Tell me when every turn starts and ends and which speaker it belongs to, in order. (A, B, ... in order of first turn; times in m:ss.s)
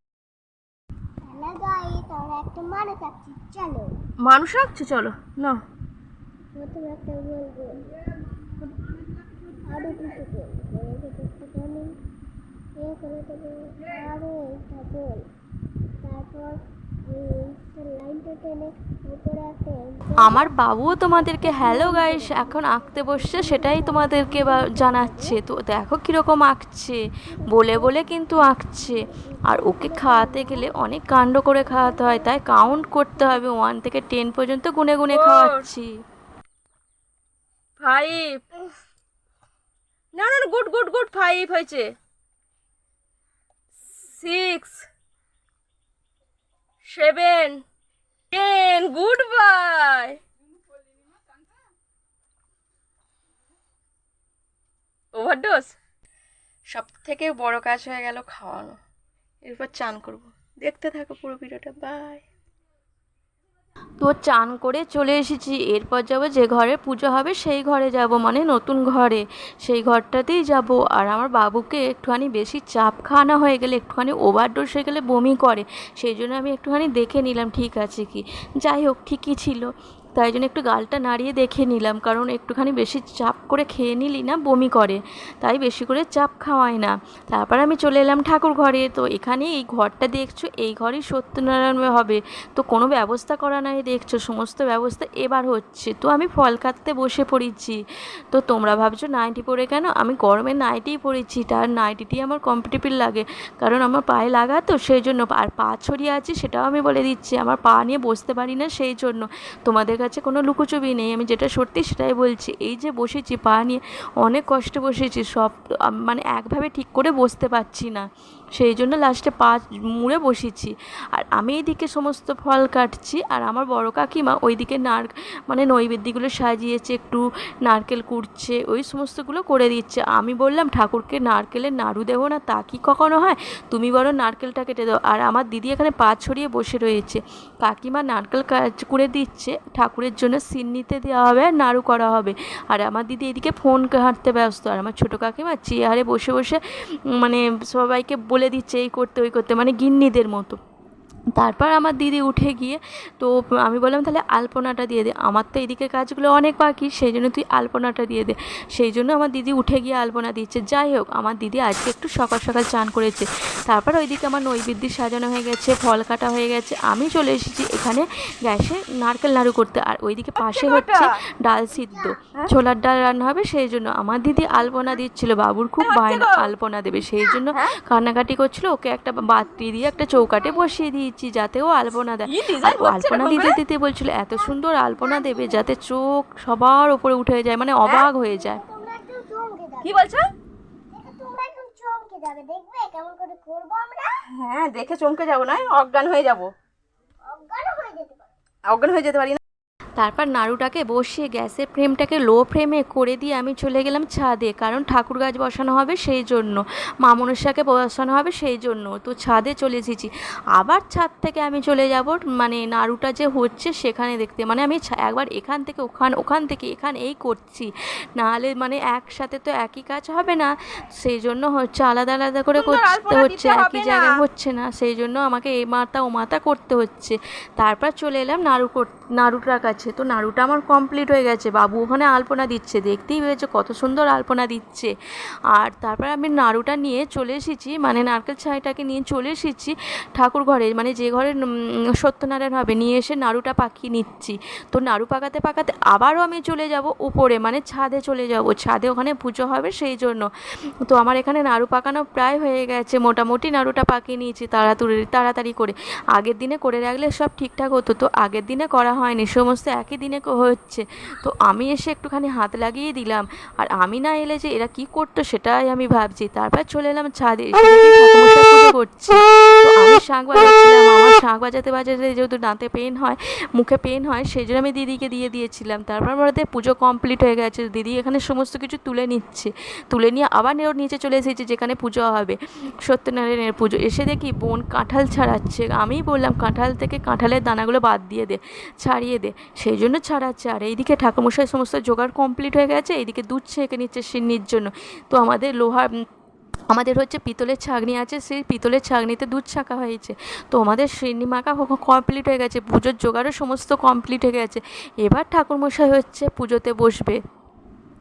0:01.2-0:04.0 A
0:04.2-0:05.6 B
0:06.6-0:07.9 A
0:09.6-0:12.0 A
0:12.8-0:15.3 A
0:16.0-0:25.4 A
0:20.1-0:35.9 C
0:27.4-0:27.9 A
0:29.3-0:30.7 A
0:35.1-0:35.7 B
0:37.8-0:38.5 B
0:40.1-0:42.0 B
0:43.9-0:44.9 B
0:46.8-0:47.6 B
0:48.3-0:50.2 B
0:55.1-0:55.8 B
0:56.7-0:58.8 B
0:59.5-1:02.2 B
1:04.0-1:37.8 C
1:38.3-2:30.6 C
2:31.4-3:08.6 C
2:50.4-2:51.1 B
2:55.8-2:56.5 B
2:57.4-2:57.7 B
3:02.2-3:03.6 B
3:05.0-3:05.6 A
3:07.8-3:08.1 B
3:08.2-3:10.1 A
3:09.8-3:10.3 B
3:10.9-3:14.2 A
3:14.2-3:16.5 B
3:17.3-3:18.3 A
3:18.7-3:19.4 B
3:20.0-3:54.9 C
3:42.5-3:44.2 B
3:55.5-4:01.4 C
4:02.0-4:10.3 C
4:10.9-4:55.9 C
4:56.7-5:07.2 C